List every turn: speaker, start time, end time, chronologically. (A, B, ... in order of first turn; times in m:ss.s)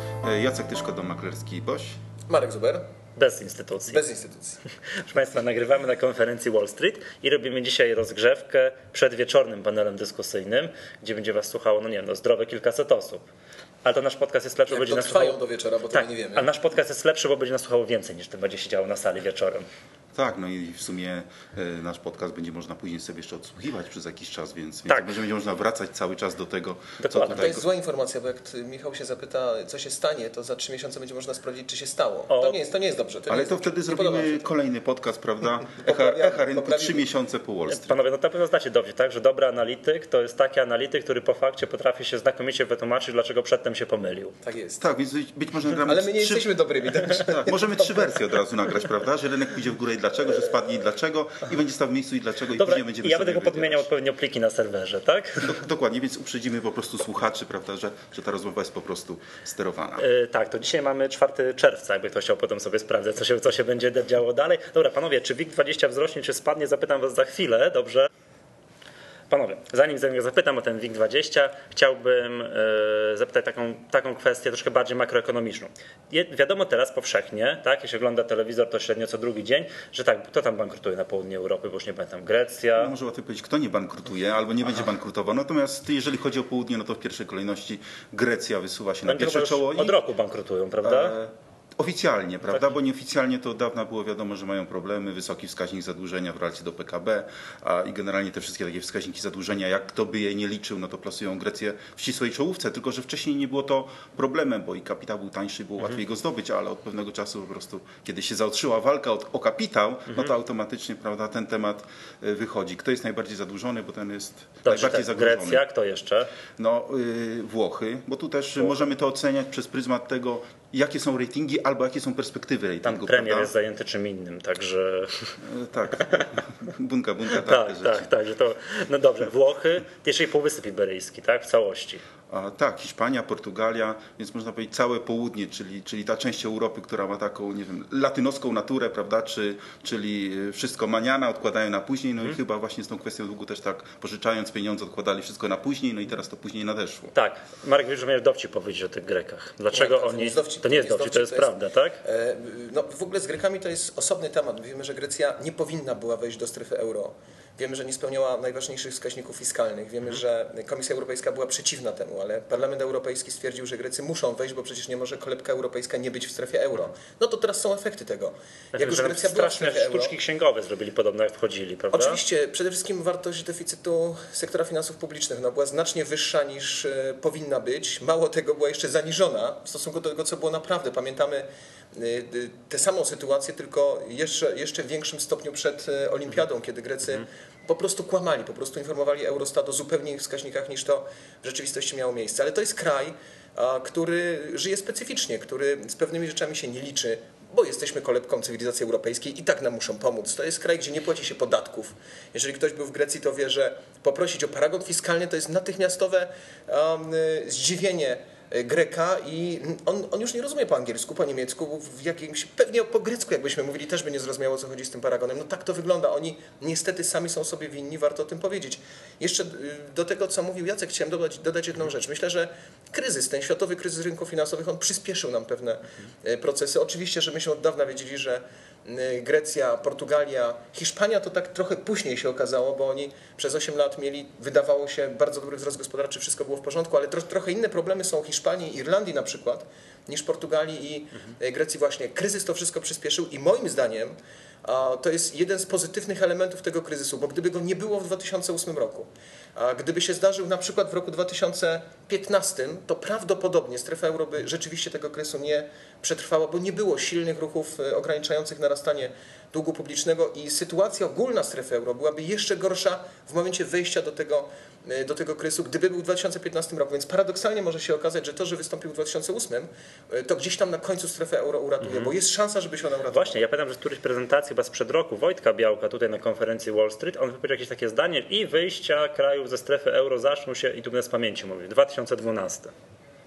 0:00.2-0:02.0 A
0:02.3-0:02.8 B
0:03.2-0:04.0 C
0:03.9-0:04.6 B
0:05.0-0:13.2 C
0:13.8-0:15.4 C
0:14.7-0:16.5 B
0:15.9-0:19.6 C
0:20.1-0:27.6 A
0:27.0-0:27.5 C
0:27.3-0:34.5 B
0:32.3-0:32.6 C
0:33.3-0:38.0 A
0:35.8-0:37.0 B
0:37.7-0:44.3 C
0:44.4-0:44.8 B
0:44.8-0:46.5 A
0:45.8-0:48.2 B
0:47.2-0:53.9 A
0:52.6-0:55.6 C
0:55.4-1:00.0 A
1:00.0-1:08.1 C
1:09.3-1:22.9 C
1:22.8-1:30.0 A
1:29.0-1:31.2 C
1:30.8-1:55.6 A
1:54.6-1:56.3 C
1:56.6-2:03.5 A
2:02.8-2:05.4 C
2:05.4-2:08.1 A
2:07.3-2:12.0 C
2:12.3-2:27.1 A
2:27.1-2:32.0 C
2:29.7-2:50.1 B
2:48.7-2:52.2 C
2:51.9-4:04.1 B
4:04.6-4:33.4 B
4:31.8-4:32.1 C
4:33.1-4:42.7 C